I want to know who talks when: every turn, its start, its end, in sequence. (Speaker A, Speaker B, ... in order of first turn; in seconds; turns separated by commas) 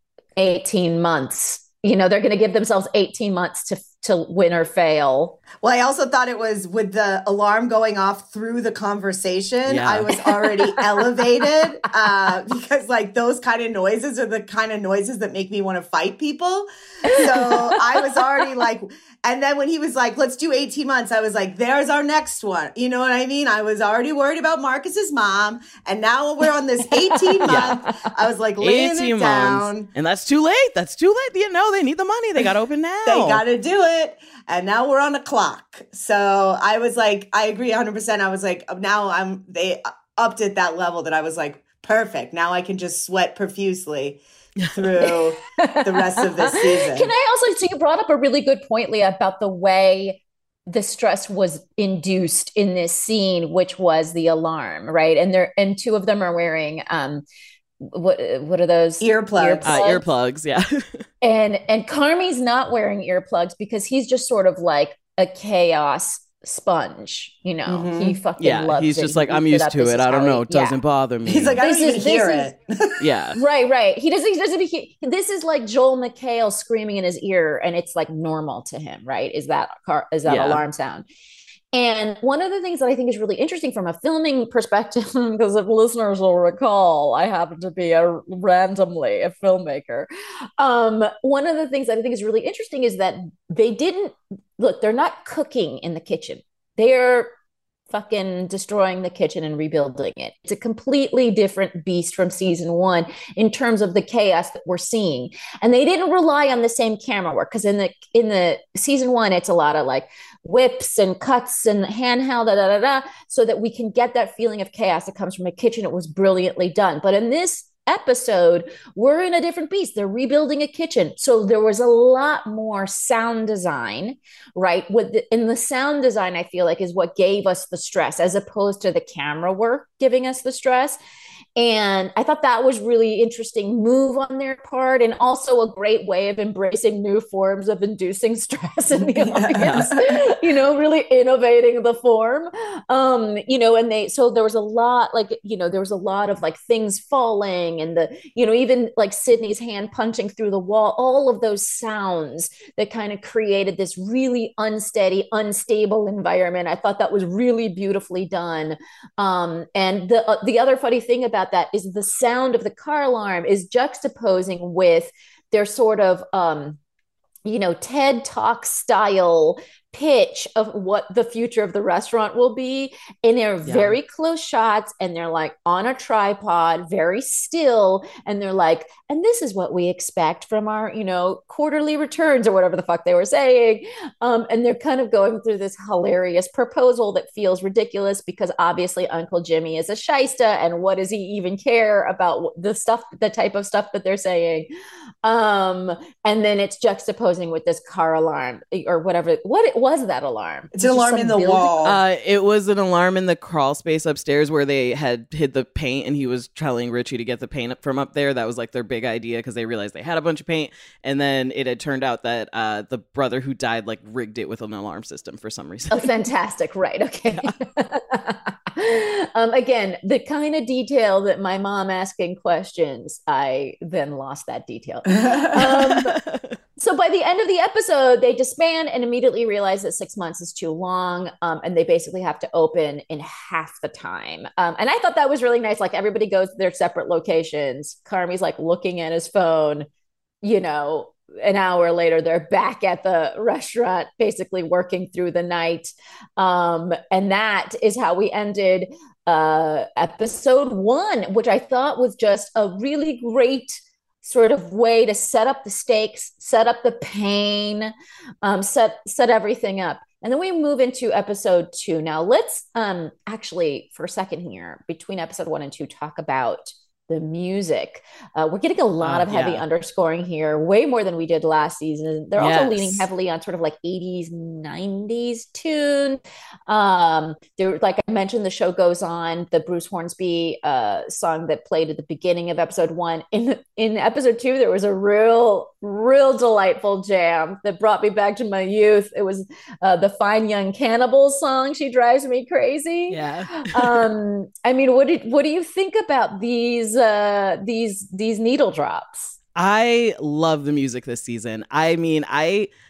Speaker A: 0.4-5.4, Speaker B: 5.6-29.9, Speaker C: 9.7-10.1, Speaker A: 10.2-10.8, Speaker A: 17.1-17.8, Speaker A: 26.9-27.9, Speaker C: 27.4-27.8, Speaker C: 28.6-33.4, Speaker B: 33.0-47.1, Speaker A: 45.0-57.2, Speaker A: 57.8-60.0, Speaker B: 59.0-59.8, Speaker C: 59.6-61.0, Speaker A: 61.2-70.8, Speaker B: 67.7-68.2, Speaker C: 68.4-71.6, Speaker B: 71.2-73.0, Speaker A: 71.6-72.5, Speaker C: 73.0-73.4, Speaker A: 73.3-81.0, Speaker C: 80.2-80.6, Speaker A: 81.7-97.3, Speaker A: 97.9-131.0, Speaker A: 131.6-166.8, Speaker B: 139.1-140.1, Speaker C: 139.6-139.9, Speaker A: 167.4-194.7, Speaker C: 173.7-174.0, Speaker A: 195.2-201.7, Speaker B: 200.7-202.0, Speaker C: 201.8-216.1, Speaker A: 215.9-226.2, Speaker C: 225.6-226.6, Speaker A: 226.8-239.9, Speaker A: 240.4-257.9, Speaker A: 258.4-299.3, Speaker C: 269.0-269.6, Speaker C: 272.4-273.1, Speaker C: 293.1-294.0, Speaker C: 299.6-302.7